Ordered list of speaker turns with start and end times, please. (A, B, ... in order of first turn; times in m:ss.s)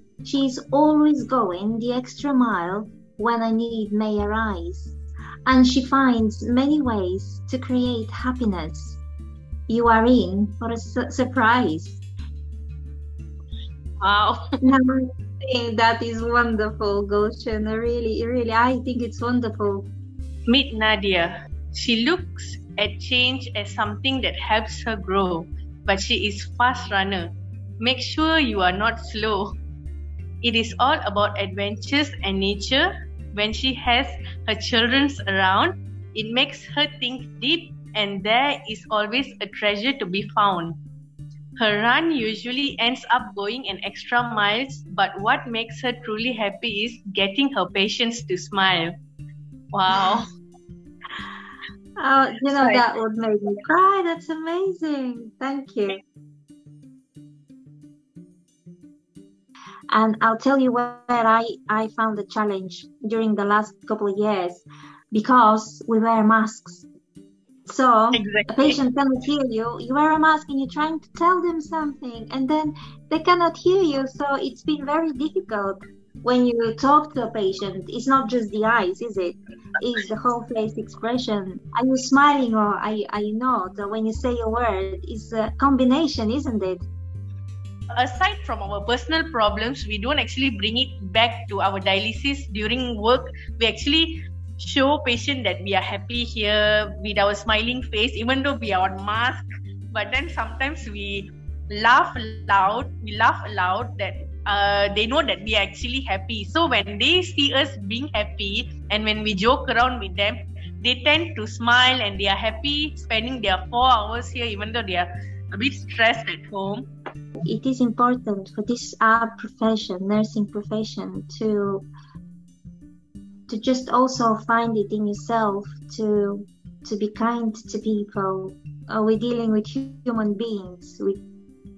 0:00.2-0:04.9 A
0:05.4-0:09.0 A
0:09.7-0:12.0 A
0:14.0-0:14.6 B
0:14.6-0:19.9 A
0:20.5-0:29.6 B
0:30.4-0:40.8 B
0:41.6-0:48.9 B
0:49.7-0:50.3 B
0:52.0-0:56.0 A
0:52.5-0:52.8 B
0:59.9-1:06.9 A
1:07.6-1:26.8 A
1:08.1-1:08.8 B
1:28.0-1:56.8 B
1:57.4-2:01.8 A
2:03.5-2:11.2 A